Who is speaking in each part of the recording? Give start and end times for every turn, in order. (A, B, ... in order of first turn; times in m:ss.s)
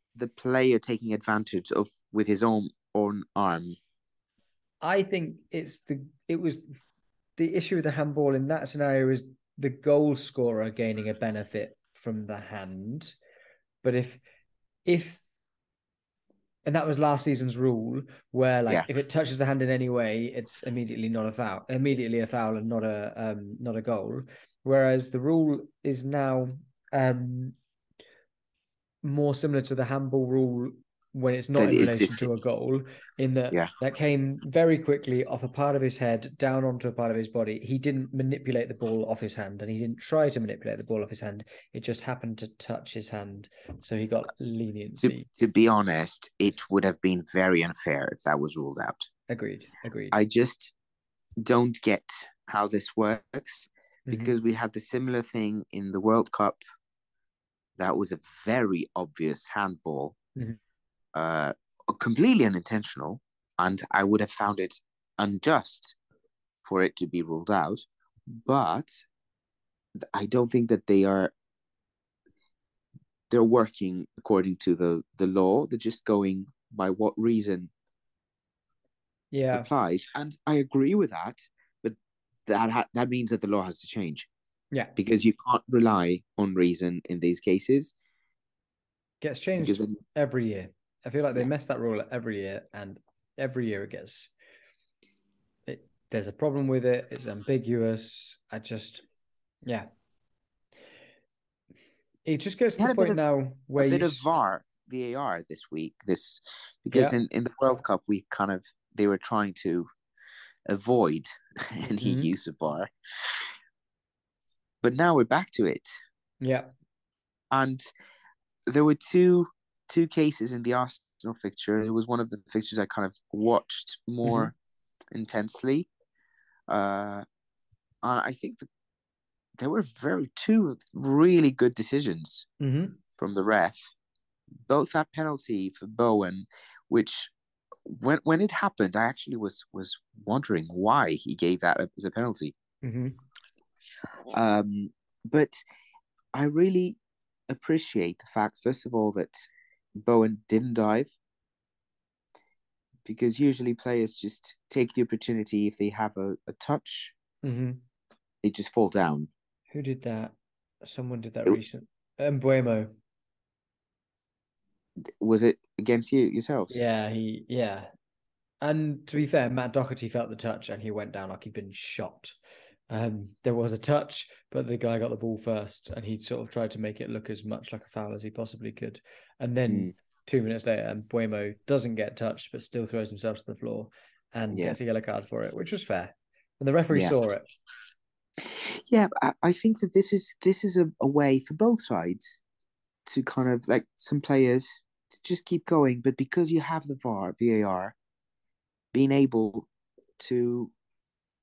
0:00.2-0:03.8 A
0:04.8-0:06.7 B
0:07.4-0:13.1 B
0:13.8-0:14.2 B
0:14.8-0:15.2 B
0:16.6-0:27.6 B
0:29.0-0:45.3 B
0:31.6-0:32.2 A
0:45.0-0:49.1 A
0:49.3-0:50.2 B
0:50.1-0:50.7 A
0:51.4-0:56.6 A
0:54.1-0:54.3 B
0:57.8-1:00.2 A
1:01.1-1:06.0 A
1:06.6-1:09.0 A
1:10.0-1:11.3 A
1:13.3-1:17.7 A
1:19.3-1:19.7 B
1:19.5-1:24.3 A
1:25.0-1:27.9 A
1:29.2-1:34.3 B
1:29.6-1:30.0 A
1:35.7-1:39.0 B
1:42.2-1:44.2 B
1:42.8-1:43.2 A
1:43.8-1:49.9 A
1:46.9-1:47.2 B
1:50.7-1:53.4 A
1:52.0-1:52.3 B
1:54.8-1:55.9 A
1:56.4-1:56.7 B
1:57.5-1:57.9 A
1:58.7-2:04.5 A
2:04.2-2:04.5 B
2:05.1-2:05.9 A
2:06.7-2:07.2 A
2:08.0-2:08.7 A
2:09.6-2:12.5 A
2:12.6-2:13.0 B
2:13.2-2:13.9 A
2:14.7-2:17.3 A
2:17.8-2:22.5 A
2:22.8-2:23.2 B
2:24.3-2:25.6 A
2:26.3-2:27.0 A
2:27.5-2:29.5 A
2:30.0-2:31.1 A
2:33.0-2:37.1 A
2:37.4-2:37.8 B
2:38.4-2:39.3 A
2:39.7-2:42.9 B
2:45.2-2:46.8 A
2:46.7-2:47.9 B
2:48.6-2:52.4 B
2:52.9-3:07.4 B
3:04.5-3:04.8 A
3:06.9-3:07.2 A
3:08.4-3:12.4 A
3:13.0-3:17.9 A
3:18.9-3:20.7 A